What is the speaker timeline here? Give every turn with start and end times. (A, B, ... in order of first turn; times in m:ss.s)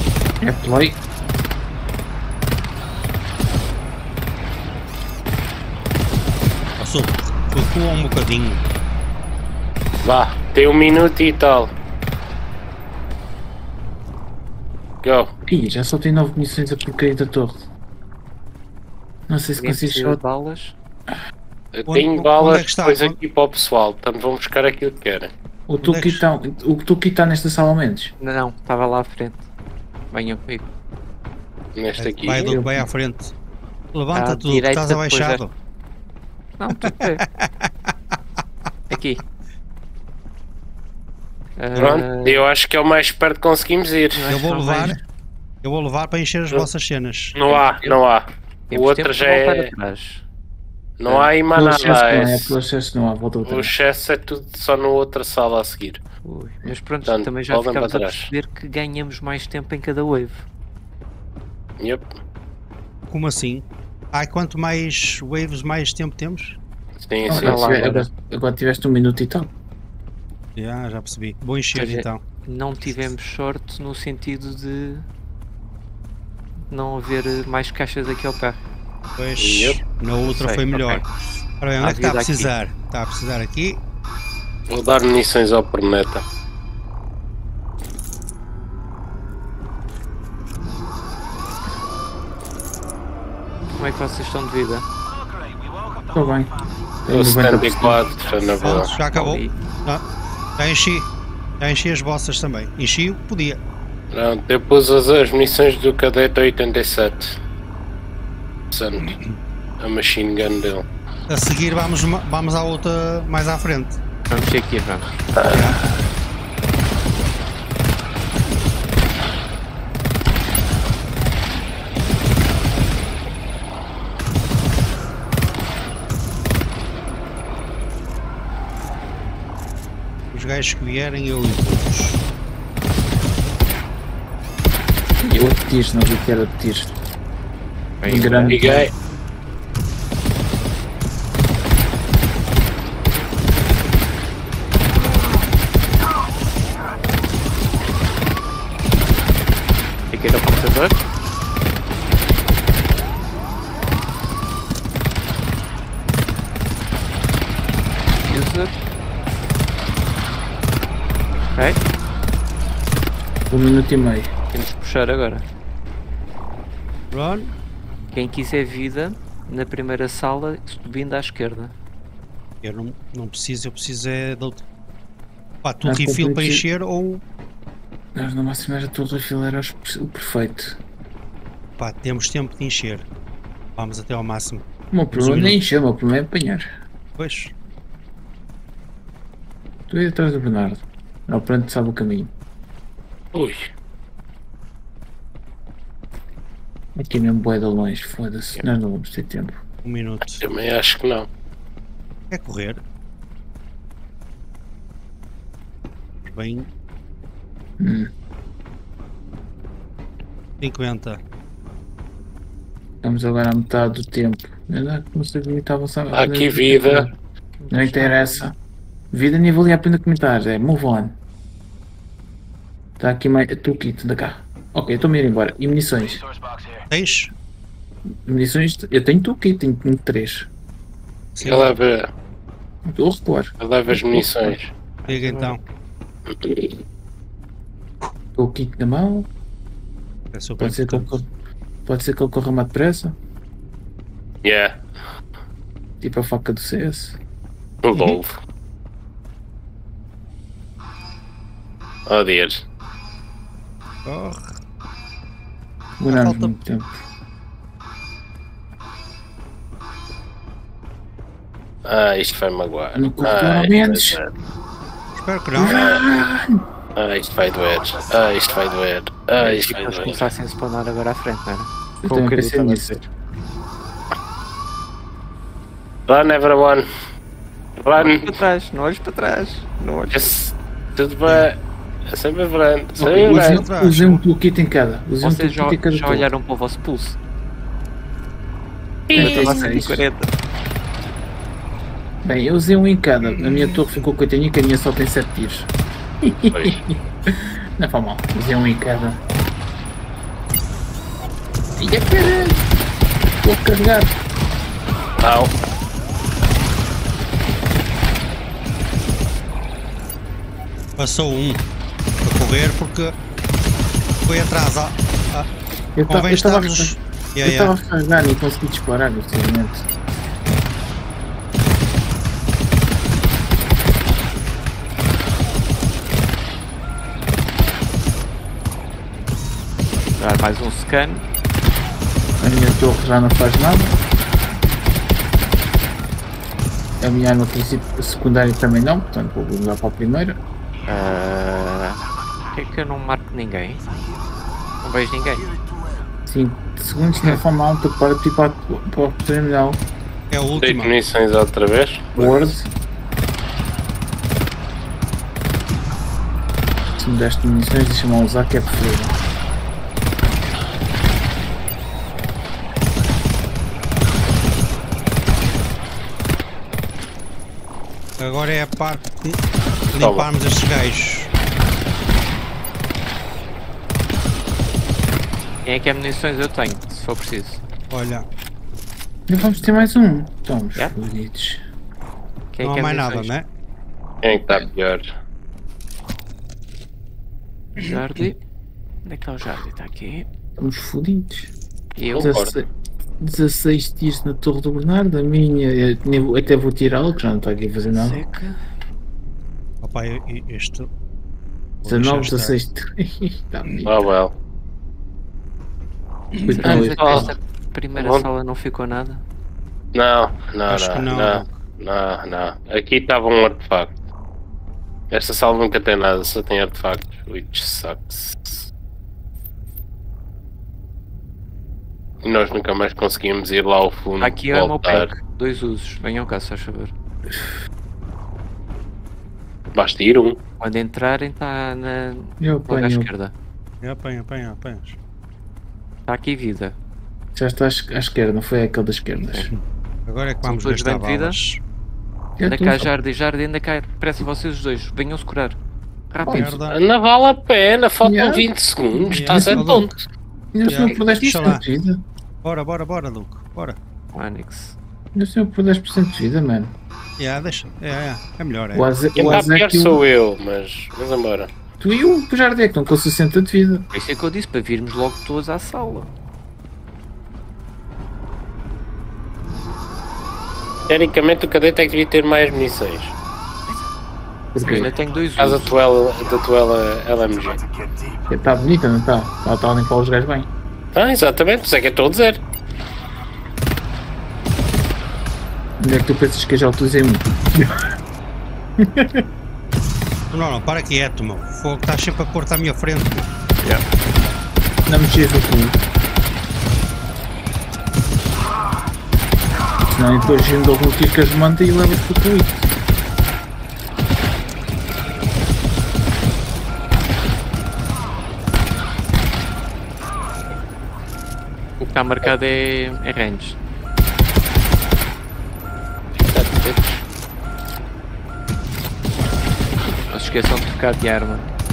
0:00.4-0:01.0 A
0:06.8-0:08.6 B
0:10.0-0:11.7 C
0:15.0-0:15.3 C
0:15.5-0:17.6 A
0:19.3-0:20.2 A
0:19.6-0:20.8 D
0:21.7-0:25.3 C
0:21.9-0:23.2 B
0:25.7-0:28.1 A
0:25.8-0:26.2 B
0:28.2-0:29.5 D
0:30.1-0:30.6 D
0:31.7-0:32.6 C
0:32.0-0:33.3 B
0:32.4-0:32.9 A
0:33.9-0:35.5 B
0:34.1-0:35.4 D
0:36.6-0:37.2 D
0:36.8-0:37.9 B
0:38.9-0:39.2 D
0:41.6-0:42.4 D
0:41.7-0:44.2 C
0:44.1-0:45.0 D
0:44.3-0:45.0 B
0:45.6-0:47.4 B
0:47.3-0:49.7 C
0:48.7-0:50.2 D
0:51.0-0:52.5 C
0:51.5-0:53.7 A
0:53.4-0:56.0 C
0:56.2-1:00.4 D
0:57.0-0:58.3 C
1:01.8-1:02.1 C
1:03.1-1:06.6 B
1:07.0-1:07.9 C
1:07.2-1:09.5 A
1:07.3-1:08.1 D
1:10.6-1:12.2 B
1:11.7-1:15.1 D
1:16.7-1:18.6 D
1:19.2-1:23.8 B
1:19.4-1:19.8 C
1:20.2-1:21.0 D
1:21.8-1:22.5 D
1:24.7-1:26.2 C
1:33.7-1:34.8 D
1:36.1-1:36.5 A
1:37.0-1:38.1 A
1:37.1-1:38.9 C
1:38.6-1:43.6 B
1:38.8-1:39.6 D
1:44.1-1:47.4 C
1:48.7-1:49.1 C
1:49.0-1:49.4 B
1:49.8-1:50.8 C
1:51.3-1:54.0 B
1:54.3-1:55.2 D
1:55.3-1:55.8 C
1:55.4-1:55.8 B
2:10.3-2:12.2 B
2:15.2-2:16.9 A
2:18.0-2:18.6 D
2:18.0-2:18.9 A
2:18.5-2:18.9 C
2:30.1-2:31.0 D
2:38.2-2:38.7 D
2:41.5-2:41.8 D
2:43.5-2:44.3 A
2:44.5-2:45.4 D
2:47.1-2:47.5 B
2:48.1-2:51.7 D
2:52.6-2:54.6 B
2:55.6-2:57.2 B
2:55.8-2:56.6 A
2:58.1-3:00.8 A
3:01.8-3:03.1 B
3:03.8-3:05.6 B
3:04.9-3:06.7 A
3:07.2-3:07.5 B
3:09.9-3:12.3 A
3:13.3-3:13.7 C
3:16.9-3:19.6 A
3:19.8-3:20.4 B
3:20.4-3:21.3 C
3:22.3-3:22.8 B
3:26.2-3:26.7 B
3:27.8-3:28.1 A
3:30.6-3:31.2 B
3:33.0-3:37.2 A
3:36.1-3:37.0 C
3:37.6-3:38.5 D
3:37.7-3:38.5 A
3:39.1-3:41.1 A
3:43.0-3:46.2 A
3:46.9-3:47.3 B
3:48.2-3:50.5 A
3:51.3-3:51.7 B
3:51.4-3:52.1 C
3:52.8-3:54.6 A
3:53.6-3:54.7 C
3:55.0-3:55.7 D
3:55.1-3:55.6 B
3:56.4-3:56.8 A
3:58.3-3:59.3 A
4:00.3-4:01.1 B
4:00.6-4:01.3 A
4:01.8-4:03.2 A
4:04.4-4:04.8 C
4:06.0-4:07.2 A
4:07.8-4:08.4 C
4:07.9-4:08.2 B
4:12.1-4:12.6 C
4:14.0-4:14.5 B
4:16.0-4:17.0 A
4:16.1-4:16.5 B
4:21.8-4:24.3 C
4:22.9-4:24.2 A
4:25.2-4:25.9 B
4:25.5-4:26.6 A
4:25.6-4:26.0 C
4:27.0-4:30.3 C
4:29.4-4:33.0 D
4:32.0-4:33.0 A
4:36.1-4:36.9 C
4:37.8-4:38.4 C
4:38.0-4:40.3 D
4:40.1-4:43.6 C
4:43.0-4:46.3 A
4:43.2-4:44.2 B
4:45.2-4:47.2 D
4:49.1-4:49.8 C
4:49.1-4:50.0 A
4:49.1-4:50.3 D
4:52.2-4:55.7 A
4:53.3-4:53.8 B
4:56.2-4:59.2 A
4:56.5-4:56.8 C
5:01.8-5:02.6 A
5:03.4-5:04.1 A
5:05.2-5:05.5 C
5:11.0-5:11.6 B
5:12.2-5:13.2 B
5:14.2-5:15.5 B
5:16.0-5:19.8 A
5:16.1-5:17.7 B
5:30.2-5:31.2 D
5:32.4-5:33.9 A
5:37.0-5:40.4 A
5:40.9-5:43.8 D
5:44.8-5:45.5 D
5:46.3-5:49.8 A
5:50.3-5:50.9 B
5:50.6-5:52.5 C
5:52.2-5:52.7 A
5:57.0-5:59.1 A
6:08.2-6:11.3 B
6:10.0-6:10.3 C
6:15.6-6:17.6 D
6:17.9-6:18.2 B
6:19.3-6:21.6 A
6:22.5-6:23.3 D
6:22.6-6:23.5 B
6:24.2-6:25.1 C
6:27.8-6:28.4 D
6:27.8-6:28.3 B
6:29.0-6:30.3 D
6:30.6-6:31.5 A
6:32.0-6:32.3 D
6:32.1-6:32.5 C
6:32.2-6:32.7 A
6:33.2-6:38.2 A
6:37.9-6:38.6 D
6:39.8-6:40.9 B
6:41.8-6:42.6 B
6:41.8-6:44.1 A
6:43.8-6:44.3 C
6:46.3-6:46.6 B
6:46.4-6:47.3 A
6:46.5-6:49.2 D
6:46.6-6:47.3 C
6:47.9-6:48.2 C
6:49.9-6:53.9 C
6:50.7-6:51.5 B
6:55.1-6:58.7 C
7:02.2-7:05.1 C
7:04.2-7:06.9 D
7:09.7-7:10.4 C
7:10.6-7:13.3 D
7:12.4-7:13.1 A
7:13.8-7:15.0 B
7:16.1-7:16.8 D
7:17.3-7:19.5 A
7:19.2-7:19.5 D
7:19.5-7:21.6 B
7:20.4-7:21.4 D
7:22.4-7:22.9 A
7:22.4-7:25.6 D
7:26.1-7:26.6 D
7:26.2-7:26.6 A
7:26.3-7:26.8 B
7:26.7-7:29.9 C
7:28.0-7:29.9 A
7:29.1-7:30.0 B
7:30.5-7:32.0 A
7:30.6-7:31.6 B
7:32.4-7:33.8 B
7:34.1-7:34.8 D
7:35.1-7:36.7 A
7:37.2-7:39.4 B
7:38.7-7:40.0 A
7:39.1-7:41.5 C
7:41.8-7:43.8 A
7:43.9-7:46.1 D
7:50.9-7:53.1 C
7:54.5-7:54.9 A
7:54.6-7:55.7 D
7:55.4-7:57.6 C
7:58.3-8:00.5 A
8:00.9-8:02.4 C
8:05.8-8:07.9 A
8:08.8-8:09.2 A
8:10.3-8:13.3 B
8:14.8-8:15.8 A
8:19.9-8:22.7 A
8:31.8-8:33.6 D
8:36.2-8:36.8 C
8:40.0-8:41.5 D